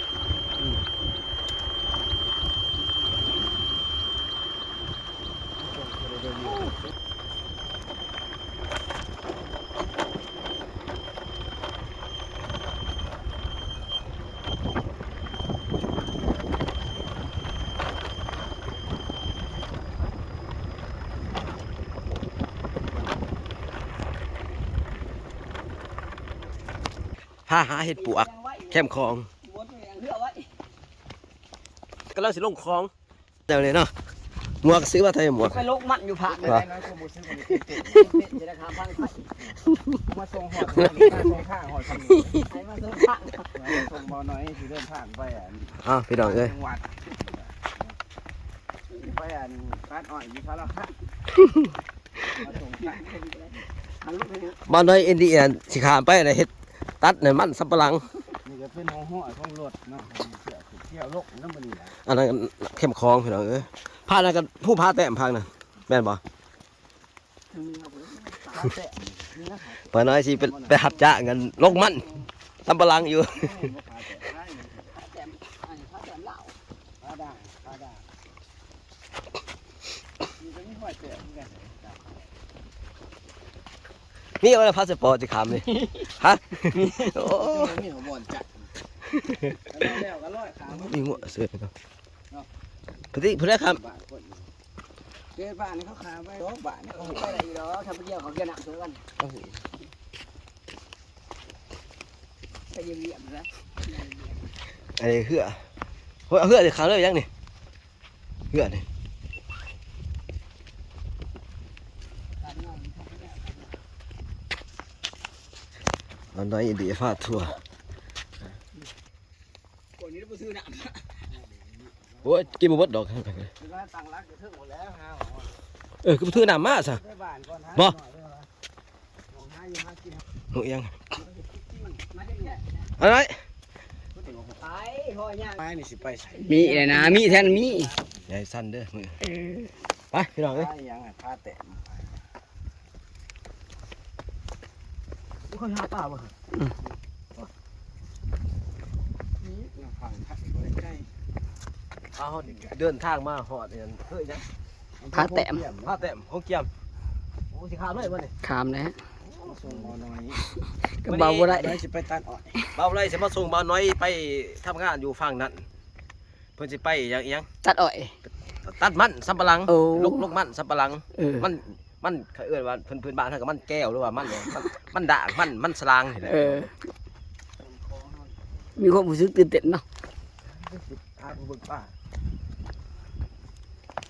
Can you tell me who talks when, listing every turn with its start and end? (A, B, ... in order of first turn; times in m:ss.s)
0:06.1-0:06.7 A
0:27.5-0:29.3 A
0:27.8-0:30.5 B
0:32.1-0:32.9 A
0:33.5-0:33.9 A
0:34.6-0:35.6 A
0:35.4-0:36.7 B
0:36.3-0:38.1 C
0:36.4-0:36.7 A
0:37.8-0:39.3 B
0:39.9-0:42.5 C
0:40.8-0:41.1 A
0:42.3-0:43.8 B
0:43.5-0:47.7 C
0:45.8-0:46.6 A
0:48.9-0:51.0 C
0:52.4-0:53.1 C
0:52.4-0:54.7 B
0:54.7-0:58.1 A
0:58.4-1:02.0 C
1:02.0-1:06.2 A
1:07.5-1:08.6 B
1:08.5-1:11.0 C
1:09.9-1:12.1 A
1:12.6-1:13.6 A
1:13.3-1:15.0 C
1:14.9-1:16.6 B
1:17.0-1:18.1 C
1:20.4-1:22.3 C
1:24.4-1:27.8 A
1:25.7-1:26.1 B
1:26.8-1:27.1 B
1:27.0-1:28.7 C
1:29.1-1:29.5 A
1:29.7-1:31.3 C
1:30.7-1:31.7 A
1:33.1-1:33.8 A
1:33.7-1:34.5 C
1:35.3-1:37.5 C
1:36.9-1:39.0 B
1:39.2-1:39.6 C
1:42.7-1:44.5 B
1:45.0-1:45.6 A
1:46.3-1:47.3 A
1:48.5-1:48.8 A
1:52.4-1:53.8 B
1:56.3-1:57.6 A
2:00.0-2:01.3 B
2:01.3-2:02.7 C
2:02.2-2:03.5 A
2:03.6-2:05.5 C
2:06.0-2:07.0 A
2:06.3-2:08.5 C
2:09.3-2:10.2 C
2:10.5-2:10.9 A
2:11.5-2:12.0 C
2:12.1-2:12.9 B
2:13.0-2:13.4 A
2:14.1-2:14.7 C
2:14.6-2:15.6 B
2:15.6-2:18.3 C
2:16.2-2:17.9 B
2:18.3-2:19.2 A
2:20.1-2:20.7 A
2:20.5-2:22.2 C
2:25.5-2:26.3 A
2:29.4-2:31.1 C
2:32.2-2:34.5 A
2:35.0-2:36.0 C
2:35.1-2:35.7 B
2:35.8-2:36.7 A
2:37.5-2:38.3 A
2:38.4-2:39.0 B
2:39.2-2:40.4 C
2:40.9-2:41.8 B
2:41.1-2:41.6 A
2:41.5-2:42.7 C
2:42.8-2:45.7 A
2:46.6-2:47.5 A
2:47.6-2:48.2 B
2:48.6-2:56.7 A
2:49.7-2:50.3 B
2:51.2-2:51.5 B
2:56.2-2:56.7 B
2:57.6-2:58.7 C
2:58.8-2:59.8 B
3:00.4-3:02.0 A